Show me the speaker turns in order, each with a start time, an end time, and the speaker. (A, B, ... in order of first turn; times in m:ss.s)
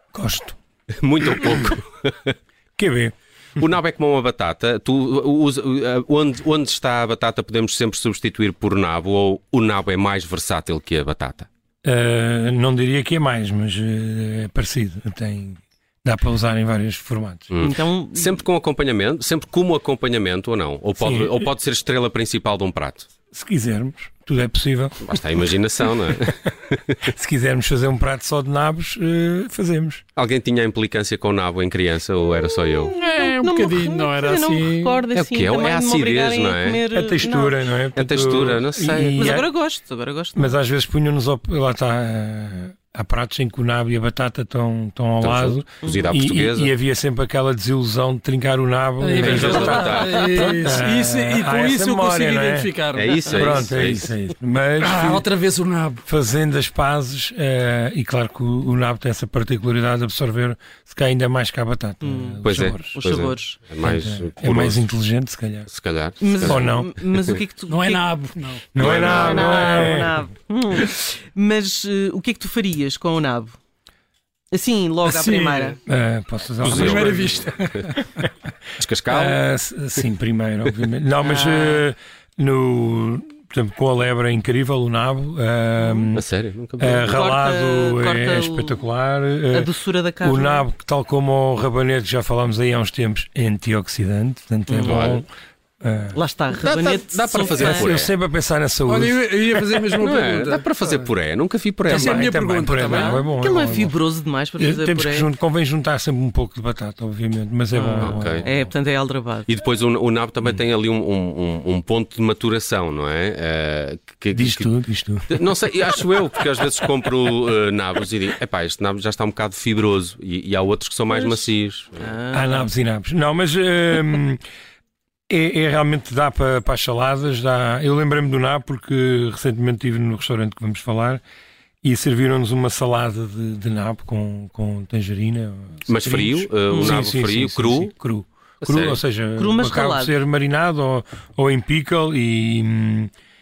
0:00.1-0:00.6 A
0:01.0-0:02.3 B
0:01.4-0:01.7 A
0:02.8-0:03.1 A
0:03.6-0:11.5 B
0:11.8-0:17.6 A
0:17.5-0:23.1 B
0:17.6-0:18.4 C
0:21.0-0:21.5 A
0:23.3-0:25.5 A
0:25.0-0:27.1 B
0:26.1-0:26.3 A
0:27.0-0:30.0 A
0:30.2-0:32.9 B
0:32.8-0:37.6 C
0:32.9-0:35.0 D
0:35.1-0:36.8 B
0:36.9-0:39.5 A
0:37.9-0:39.3 B
0:39.1-0:40.6 C
0:40.3-0:52.8 A
0:45.2-0:46.7 B
0:45.8-0:46.2 C
0:49.0-0:53.4 D
0:49.2-0:50.6 B
0:52.9-0:54.1 B
0:53.3-0:53.6 C
0:53.3-0:55.3 A
0:54.8-0:56.0 D
0:56.0-1:03.1 A
1:02.0-1:03.7 C
1:02.4-1:04.8 B
1:03.8-1:05.7 A
1:05.7-1:07.4 B
1:06.2-1:08.1 C
1:06.4-1:06.9 A
1:07.7-1:10.0 D
1:08.7-1:10.1 A
1:08.8-1:09.6 B
1:09.0-1:13.6 C
1:14.5-1:15.8 C
1:15.0-1:15.8 D
1:15.8-1:18.5 A
1:16.6-1:17.9 D
1:16.6-1:17.9 B
1:18.8-1:19.4 B
1:19.1-1:26.3 A
1:21.2-1:21.8 C
1:25.8-1:26.1 C
1:26.1-1:27.2 B
1:26.8-1:29.7 A
1:27.0-1:28.8 C
1:29.5-1:30.7 C
1:30.2-1:35.3 A
1:34.7-1:35.0 C
1:34.8-1:35.2 B
1:35.8-1:36.2 A
1:36.1-1:38.0 C
1:36.6-1:38.1 B
1:37.5-1:39.2 A
1:38.8-1:41.1 D
1:39.9-1:42.2 B
1:41.8-1:43.9 A
1:41.9-1:43.2 D
1:42.8-1:45.3 C
1:44.6-1:48.7 A
1:47.7-1:49.5 C
1:48.0-1:48.5 B
1:49.4-1:54.7 B
1:54.3-1:55.6 A
1:55.3-2:02.1 B
2:01.1-2:02.7 C
2:02.3-2:04.4 A
2:05.3-2:11.2 A
2:11.8-2:23.1 A
2:15.9-2:17.9 B
2:16.7-2:17.0 C
2:18.6-2:19.0 B
2:19.3-2:20.2 C